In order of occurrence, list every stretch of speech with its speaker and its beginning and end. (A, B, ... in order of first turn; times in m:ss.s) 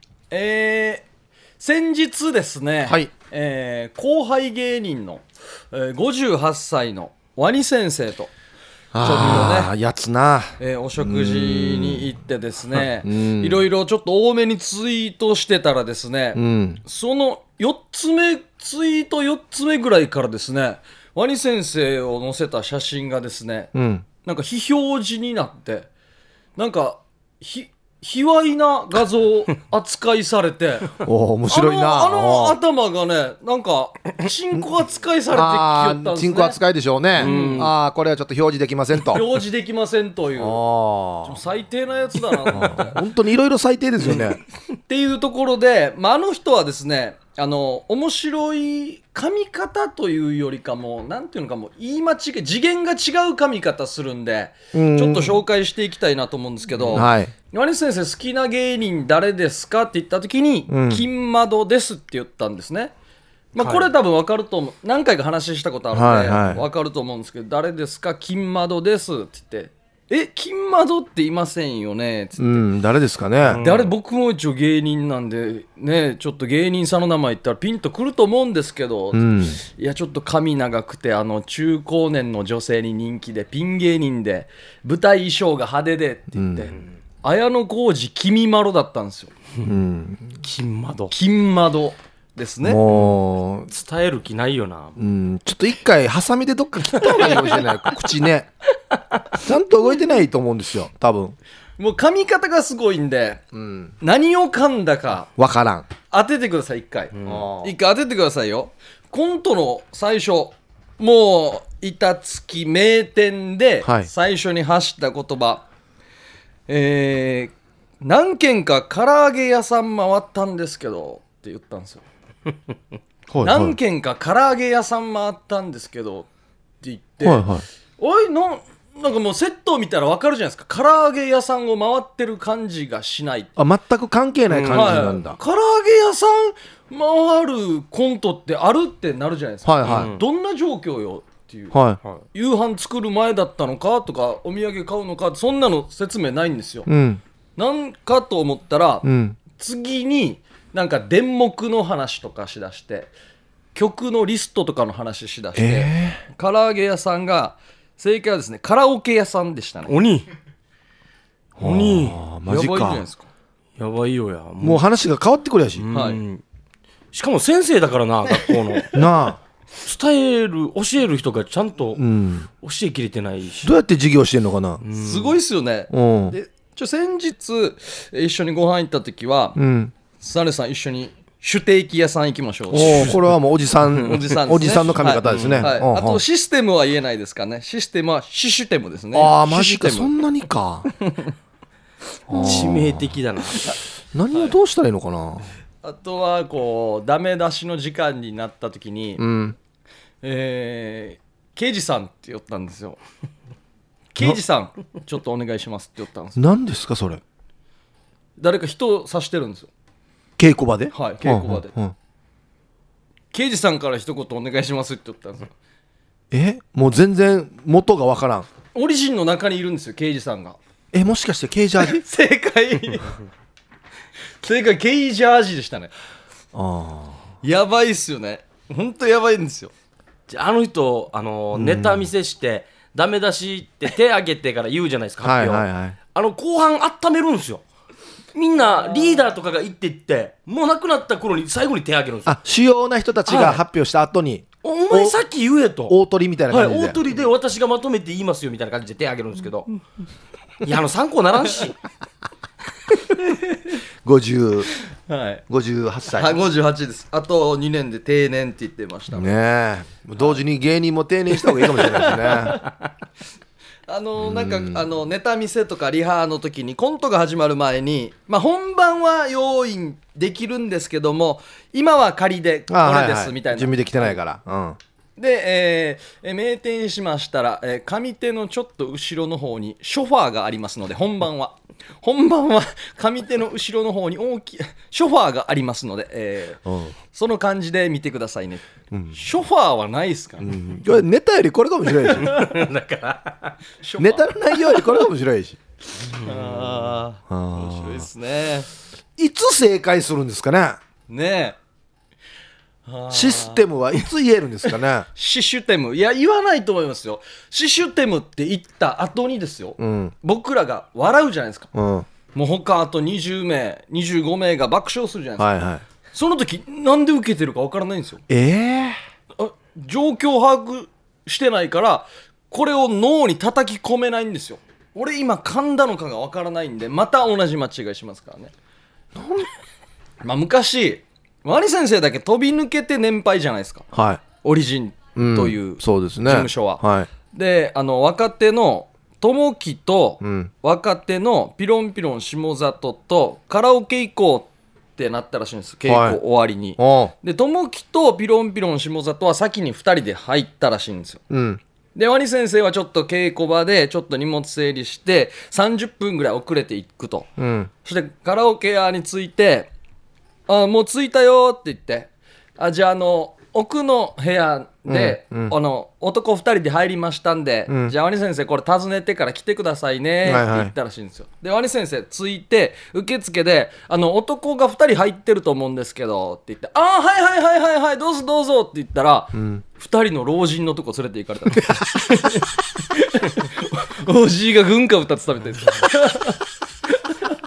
0:00.3-0:01.0 A
0:01.6-0:08.3 A
0:08.9-0:12.1 B
0:09.0-0:09.7 A
0:10.6-0:23.7 A
0:12.7-0:13.6 B
0:16.3-0:16.8 B
0:23.7-0:24.0 B
0:24.2-0:25.9 A
0:26.6-0:36.6 A
0:31.0-0:32.6 B
0:35.3-0:39.3 B
0:37.2-0:37.7 C
0:37.2-0:37.7 A
0:39.1-0:40.6 A
0:40.4-0:41.4 B
0:41.2-0:43.0 A
0:42.5-0:44.4 B
0:44.9-1:02.9 A
0:54.7-0:55.4 B
0:56.9-0:57.3 B
1:00.7-1:01.0 B
1:03.5-1:12.6 A
1:03.6-1:03.9 C
1:05.9-1:06.6 B
1:12.4-1:13.6 B
1:13.4-1:13.9 C
1:13.6-1:29.3 A
1:19.1-1:19.6 B
1:26.3-1:26.7 B
1:29.6-1:30.3 B
1:30.4-1:31.1 C
1:31.1-1:32.8 A
1:32.6-1:33.7 B
1:32.9-1:33.2 C
1:33.7-1:35.0 C
1:35.0-1:38.5 B
1:39.4-1:41.4 B
1:41.8-1:43.4 A
1:43.5-1:43.9 B
1:44.0-1:45.3 A
1:45.4-1:45.9 B
1:46.1-1:55.6 A
1:47.1-1:47.4 C
1:47.2-1:47.7 B
1:53.8-1:54.1 B
1:56.7-2:02.0 A
2:03.3-2:03.8 B
2:03.4-2:06.3 A
2:06.8-2:07.5 A
2:07.2-2:07.6 B
2:08.0-2:13.5 A
2:13.6-2:15.4 B
2:14.5-2:15.1 C
2:14.7-2:21.8 A
2:19.6-2:20.1 B
2:19.8-2:20.2 C
2:21.7-2:22.0 B
2:22.3-2:26.9 A
2:26.8-2:27.2 B
2:27.6-2:33.1 A
2:29.0-2:29.4 B
2:33.7-2:39.9 A
2:35.5-2:36.2 B
2:39.9-2:40.3 C
2:41.6-2:43.0 B
2:41.6-2:42.2 C
2:42.4-2:43.3 A
2:43.8-2:44.8 C
2:44.6-2:45.8 B
2:45.8-2:46.4 C
2:45.9-2:46.2 A
2:47.1-2:48.9 C
2:48.9-2:49.4 B
2:49.8-2:52.0 C
2:52.0-2:52.5 B
2:52.6-2:53.7 C
2:53.6-2:54.8 B
2:54.8-2:55.4 C
2:54.9-2:59.6 A
2:55.9-2:56.4 B
2:59.6-2:59.9 B
3:00.2-3:03.2 A
3:02.7-3:06.2 B
3:03.9-3:10.1 A
3:05.2-3:05.7 C
3:09.1-3:10.9 B
3:11.0-3:11.3 A
3:12.3-3:13.1 B
3:12.3-3:13.8 C
3:14.1-3:15.4 B
3:15.8-3:19.2 A
3:19.2-3:19.6 B
3:20.2-3:23.0 A
3:24.1-3:26.4 A
3:26.4-3:27.2 B
3:28.4-3:29.7 A
3:30.4-3:31.9 B
3:30.9-3:31.7 A
3:33.3-3:35.5 A
3:36.3-3:38.5 B
3:38.7-3:40.6 A
3:40.9-3:42.0 B
3:41.8-3:43.1 A
3:44.4-3:45.9 A
3:46.5-3:47.2 B
3:47.4-3:49.7 A
3:50.3-3:57.6 C
3:51.5-3:52.1 B
3:55.2-3:56.0 B
3:58.3-4:02.4 C
4:02.2-4:05.2 B
4:03.2-4:03.6 C
4:04.6-4:06.0 C
4:05.9-4:07.0 B
4:06.5-4:09.8 C
4:10.6-4:11.8 C
4:14.0-4:14.7 B
4:15.1-4:15.4 A
4:15.5-4:16.4 B
4:16.1-4:19.3 A
4:19.1-4:22.6 B
4:21.5-4:22.6 A
4:23.9-4:34.2 A
4:24.2-4:24.8 B
4:32.7-4:34.8 B
4:35.2-4:50.6 A
4:46.6-4:46.9 B
4:48.9-4:49.2 B
4:50.4-4:52.4 B
4:52.2-4:53.6 C
4:53.8-4:55.0 A
4:54.0-4:55.6 B
4:56.2-4:58.7 A
4:57.3-4:58.1 B
4:59.2-5:00.8 B
5:01.1-5:01.6 A
5:02.8-5:03.7 A
5:03.1-5:05.1 B
5:05.1-5:11.7 A
5:09.8-5:10.1 B
5:11.7-5:12.1 B
5:12.3-5:15.5 A
5:15.4-5:15.8 B
5:16.1-5:18.2 A
5:18.3-5:19.0 B
5:19.4-5:28.5 A
5:29.1-5:29.5 B
5:30.2-5:33.8 A
5:33.9-5:34.2 B
5:34.4-5:51.2 A
5:35.2-5:37.1 B
5:40.2-5:40.5 B
5:45.8-5:46.2 B
5:46.8-5:47.1 B
5:51.3-5:51.6 B
5:51.9-5:57.3 A
5:57.4-5:57.7 B
5:57.8-5:59.7 A
6:00.5-6:26.4 A
6:04.9-6:05.5 B
6:07.7-6:07.9 B
6:10.2-6:10.7 B
6:19.3-6:19.6 B